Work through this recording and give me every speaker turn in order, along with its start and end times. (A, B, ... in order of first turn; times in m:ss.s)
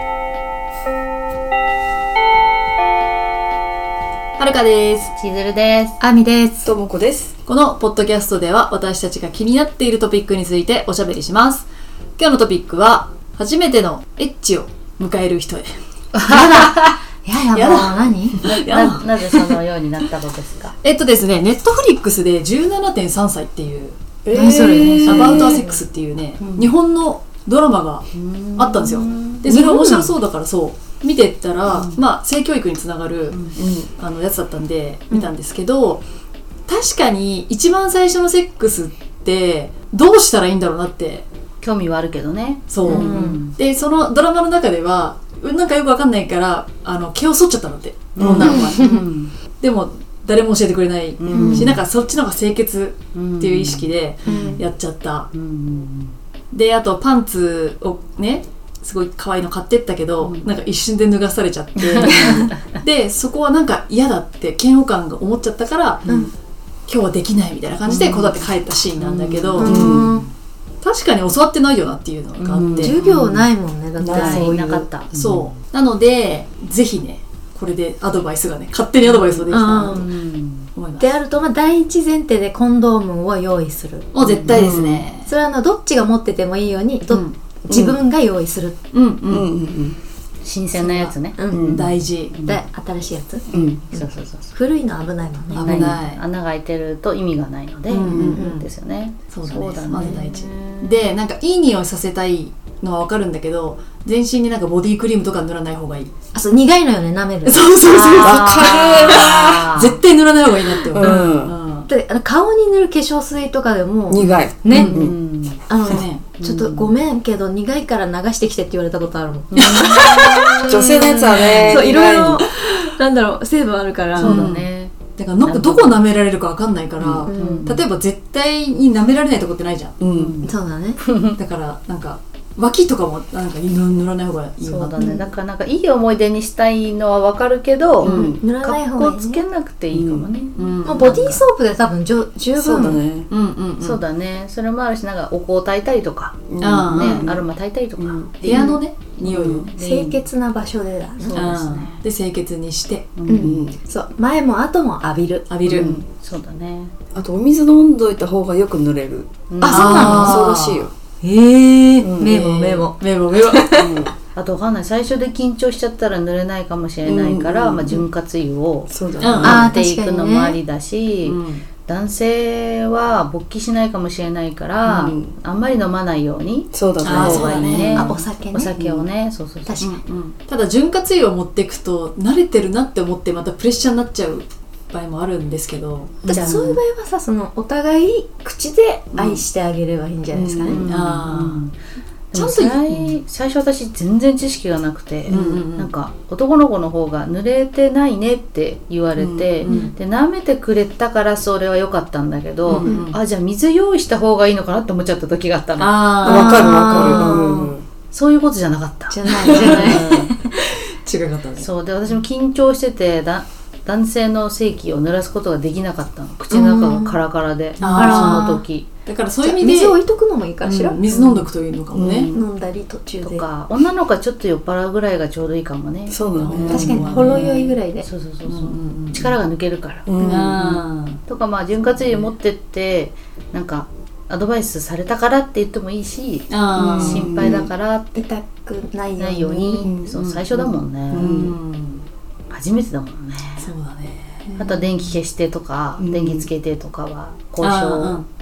0:04.4-0:05.1 A
0:05.2-0:06.0 B
0:06.0-0:06.7 C
0:06.6-0:07.3 D
0:07.5-0:11.7 A
0:12.2-0:15.7 A
0:16.1-0:17.0 B
0:16.3-0:18.4 C
0:17.5-0:19.1 A
0:18.5-0:20.8 B
0:20.8-0:24.0 A
0:24.2-0:25.6 D
0:24.3-0:25.6 C
0:24.8-0:25.8 B
0:25.0-0:36.0 A
0:26.4-0:26.7 B
0:28.1-0:29.5 B
0:29.5-0:30.1 C
0:31.7-0:32.0 B
0:33.3-0:33.6 B
0:33.6-0:33.9 D
0:36.7-0:41.3 A
0:41.6-0:43.6 B
0:42.7-0:49.1 A
0:42.9-0:43.4 C
0:48.2-0:49.3 B
0:48.2-0:48.6 D
0:48.4-0:49.0 C
0:49.6-0:55.3 A
0:51.2-0:51.8 B
0:51.4-0:51.8 D
0:53.1-0:54.6 B
0:55.3-0:56.2 B
0:56.5-1:06.0 A
1:01.8-1:02.6 B
1:06.1-1:06.3 B
1:06.9-1:09.8 A
1:07.9-1:08.4 B
1:09.0-1:10.3 B
1:09.6-1:10.3 C
1:09.6-1:10.2 D
1:10.8-1:13.5 A
1:12.4-1:13.0 B
1:12.8-1:14.9 C
1:14.0-1:14.4 D
1:14.1-1:15.5 B
1:15.1-1:20.1 A
1:19.0-1:20.7 B
1:19.5-1:20.1 C
1:20.8-1:21.1 A
1:21.0-1:24.1 C
1:24.1-1:25.3 A
1:24.2-1:24.7 B
1:24.5-1:25.1 D
1:25.2-1:28.8 C
1:27.1-1:27.4 A
1:27.7-1:28.0 D
1:28.9-1:29.5 A
1:29.3-1:30.0 D
1:30.4-1:32.6 B
1:30.8-1:32.4 A
1:31.4-1:31.7 C
1:31.5-1:31.9 D
1:32.4-1:35.8 C
1:33.5-1:33.9 D
1:33.5-1:34.5 B
1:35.5-1:36.2 A
1:35.5-1:41.0 B
1:37.9-1:38.7 A
1:38.1-1:38.4 D
1:38.2-1:38.6 C
1:39.3-1:46.1 A
1:46.3-1:48.9 C
1:47.4-1:51.9 A
1:48.2-1:49.7 D
1:48.2-1:50.0 B
1:50.7-1:51.6 D
1:51.0-1:51.3 C
1:51.9-1:55.0 C
1:54.1-1:55.2 D
1:54.7-1:55.0 A
1:54.7-1:55.6 B
1:55.7-2:04.5 C
1:55.9-1:56.3 A
1:56.3-1:56.9 B
1:59.5-2:00.7 B
2:00.2-2:02.4 D
2:01.3-2:01.8 A
2:04.2-2:04.9 B
2:04.2-2:04.6 A
2:05.2-2:10.0 A
2:05.4-2:06.0 B
2:07.0-2:07.3 D
2:07.3-2:07.7 C
2:07.3-2:07.8 B
2:10.0-2:10.4 D
2:10.1-2:11.4 B
2:10.4-2:11.0 C
2:11.3-2:15.0 A
2:14.6-2:21.4 B
2:15.0-2:15.3 C
2:18.0-2:18.4 D
2:18.3-2:19.4 C
2:19.9-2:20.3 D
2:20.6-2:21.3 A
2:20.8-2:23.0 C
2:22.6-2:23.3 D
2:23.3-2:24.0 A
2:23.8-2:30.2 B
2:26.5-2:27.4 D
2:26.6-2:27.3 A
2:28.0-2:28.3 D
2:28.4-2:29.7 A
2:28.5-2:28.8 C
2:29.3-2:29.7 D
2:29.8-2:31.5 C
2:31.2-2:32.0 B
2:31.3-2:33.1 A
2:33.2-2:33.6 B
2:33.3-2:35.5 C
2:33.4-2:33.8 D
2:35.5-2:35.9 A
2:35.7-2:36.9 B
2:35.7-2:36.0 D
2:37.1-2:39.3 D
2:39.5-2:40.3 B
2:39.6-2:40.5 C
2:39.7-2:40.9 A
2:40.1-2:40.9 D
2:41.2-2:44.1 C
2:42.0-2:42.5 D
2:42.2-2:43.8 A
2:43.7-2:44.1 D
2:44.3-3:00.0 B
2:47.1-2:48.1 D
2:48.9-2:49.7 D
2:49.2-2:49.7 A
2:49.4-2:50.6 C
2:51.2-2:51.6 A
2:54.8-2:55.3 D
2:56.7-2:57.9 D
2:57.0-2:58.1 A
2:57.1-2:58.7 C
2:58.8-2:59.0 D
2:59.8-3:06.8 A
3:06.3-3:06.8 B
3:06.3-3:10.8 C
3:09.2-3:09.4 A
3:10.3-3:10.8 D
3:10.6-3:11.8 B
3:10.8-3:11.6 A
3:12.3-3:26.9 B
3:12.3-3:12.8 C
3:15.3-3:15.9 A
3:15.3-3:15.6 D
3:19.2-3:19.5 D
3:19.6-3:19.9 A
3:22.7-3:23.2 A
3:25.8-3:27.4 A
3:26.2-3:27.9 D
3:26.3-3:27.7 C
3:28.1-3:30.3 B
3:29.1-3:30.5 C
3:29.4-3:31.7 A
3:29.8-3:30.3 D
3:31.6-3:38.9 B
3:36.5-3:37.2 C
3:37.8-3:40.0 A
3:37.8-3:38.6 C
3:39.4-3:41.0 C
3:40.6-3:42.3 A
3:41.1-3:41.5 B
3:41.9-3:42.3 D
3:42.1-3:42.5 B
3:42.3-3:43.4 C
3:43.1-3:58.2 B
3:46.1-3:47.2 D
3:46.4-3:47.6 A
3:46.7-3:48.1 C
3:48.5-3:49.4 A
3:50.1-3:50.5 D
3:50.3-3:51.2 A
3:51.9-3:52.3 A
3:56.5-3:57.3 A
3:57.0-3:57.7 D
3:58.2-3:59.9 C
3:59.2-4:01.3 B
3:59.8-4:01.6 D
4:00.1-4:00.5 A
4:01.1-4:02.1 A
4:02.5-4:03.7 B
4:03.6-4:04.5 A
4:04.5-4:04.9 C
4:04.6-4:08.2 B
4:06.0-4:06.5 D
4:07.6-4:08.3 A